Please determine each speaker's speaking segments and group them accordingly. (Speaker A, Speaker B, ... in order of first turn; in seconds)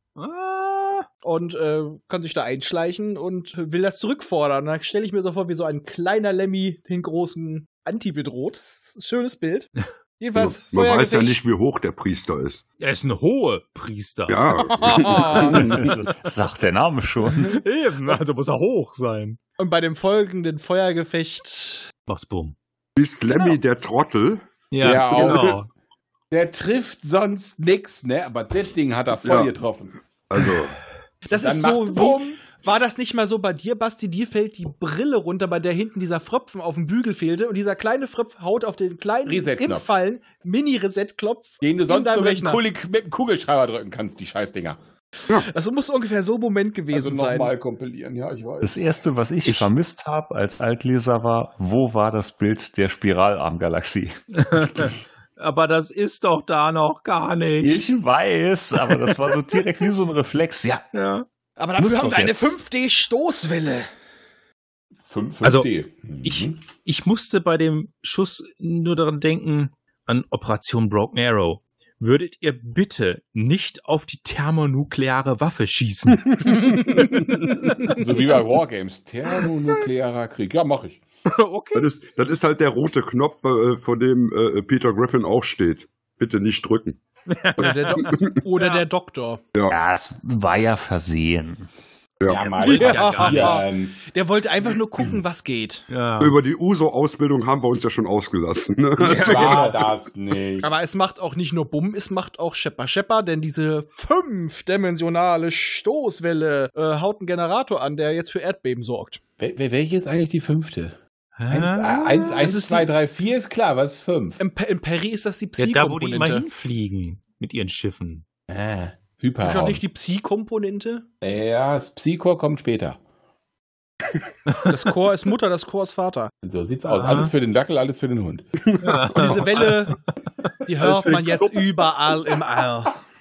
Speaker A: 0.2-1.1, 12.8-14.4, 15.3-15.7, 17.4-19.4, 22.1-22.6, 24.7-25.7, 54.4-57.8, 58.9-59.6, 60.9-61.2, 65.4-65.7, 66.2-78.0, 81.3-81.9, 87.3-88.8, 92.3-93.7, 95.9-96.3, 111.4-112.5, 115.6-118.2, 126.9-127.3, 128.8-130.0, 130.8-131.8
Speaker B: 1.2-11.4, 14.6-15.9, 19.6-21.9, 31.3-42.6, 45.3-47.5, 61.6-63.9, 87.6-89.4, 92.6-95.8, 99.2-99.8, 100.6-109.2, 112.4-112.9, 114.4-116.5, 119.4-121.1, 124.7-126.3, 129.2-130.0, 130.7-132.9
Speaker C: 10.3-12.6, 14.3-15.8, 23.0-24.4, 29.2-29.5, 30.3-30.8, 81.7-87.0, 87.6-88.3, 96.2-99.6, 128.8-129.4
Speaker D: 15.4-17.6, 48.6-54.2, 57.6-60.8, 61.8-62.6, 89.7-91.7
Speaker E: 24.8-25.6, 26.3-30.0, 31.3-32.3, 39.2-39.9, 41.6-44.8, 46.9-48.8, 65.1-66.6, 77.8-81.0, 92.3-94.0, 99.0-100.7, 109.4-111.0, 111.5-114.4, 118.5-119.8, 121.2-123.0, 126.4-128.5